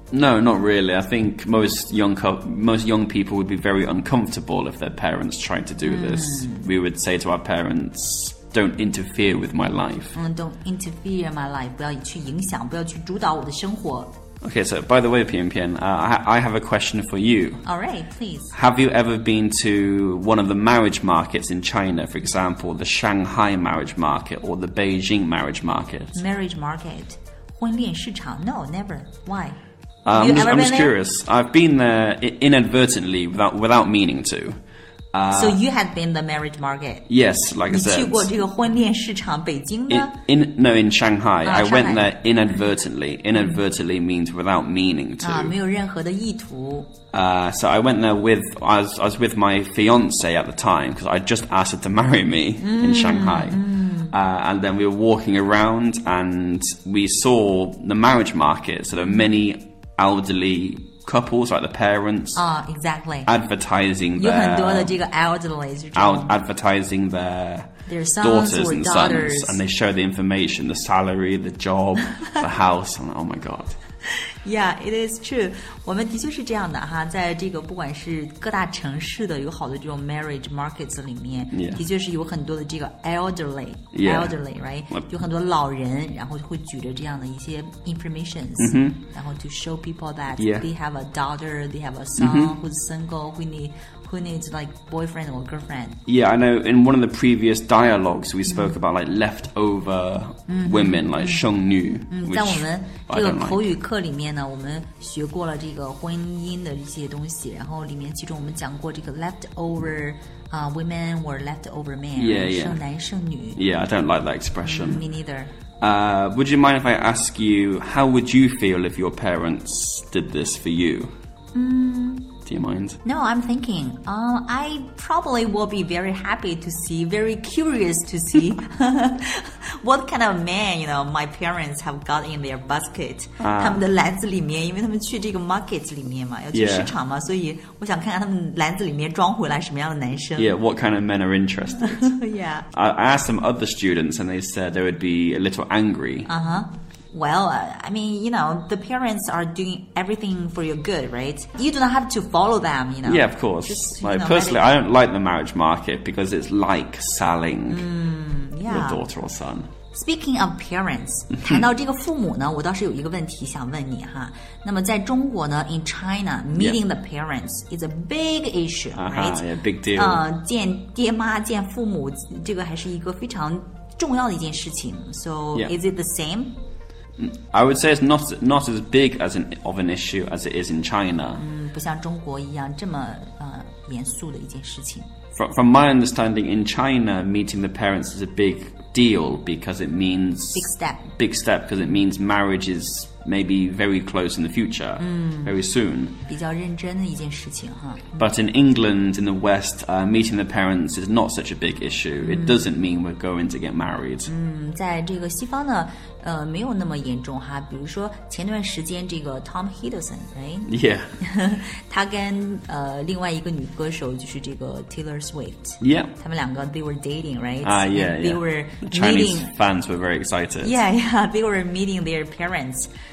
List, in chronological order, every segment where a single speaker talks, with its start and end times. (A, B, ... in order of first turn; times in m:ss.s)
0:00.1-0:10.2 A
0:05.8-0:06.7 B
0:10.1-0:14.1 B
0:14.4-0:17.6 A
0:17.6-0:18.5 B
0:18.5-0:26.2 A
0:26.1-0:29.6 B
0:30.0-0:34.6 A
0:30.1-0:30.9 B
0:35.1-0:35.6 A
0:35.3-0:37.1 B
0:37.1-0:38.3 A
0:37.7-0:40.1 B
0:39.9-0:45.5 A
0:41.4-0:42.1 B
0:43.3-0:43.6 B
0:45.2-0:46.9 B
0:47.1-1:02.4 A
0:52.6-0:54.1 B
1:02.3-1:03.3 B
1:03.2-1:04.9 A
1:04.2-1:06.3 B
1:05.9-1:13.8 A
1:07.9-1:09.6 B
1:14.3-1:36.0 B
1:21.5-1:21.8 A
1:23.9-1:24.4 A
1:28.6-1:29.0 A
1:30.4-1:30.6 A
1:32.2-1:32.5 A
1:36.0-1:43.7 A
1:38.5-1:38.7 B
1:40.5-1:41.4 B
1:42.1-1:53.6 B
1:52.2-1:52.8 A
1:53.6-1:55.0 A
1:54.6-1:55.5 B
1:55.8-2:01.1 A
2:01.5-2:02.4 B
2:02.4-2:03.0 A
2:03.0-2:20.5 B
2:13.4-2:13.8 A
2:16.5-2:16.9 A
2:20.4-2:22.2 A
2:21.8-2:22.7 B
2:22.7-2:26.3 A
2:26.2-2:34.6 B
2:33.0-2:37.8 A
2:37.7-2:39.0 B
2:38.6-2:39.7 A
2:39.9-2:56.6 B
2:46.5-2:46.8 A
2:48.9-2:50.2 A
2:57.2-3:01.4 A
3:01.4-3:05.1 B
3:05.3-3:16.2 A
3:10.5-3:11.1 B
3:15.0-3:15.6 B
3:16.2-3:18.3 B
3:18.2-3:24.3 A
3:22.2-3:22.7 B
3:24.3-3:39.5 B
3:30.7-3:31.1 A
3:35.8-3:36.1 A
3:37.6-3:40.8 A
3:40.6-3:42.9 B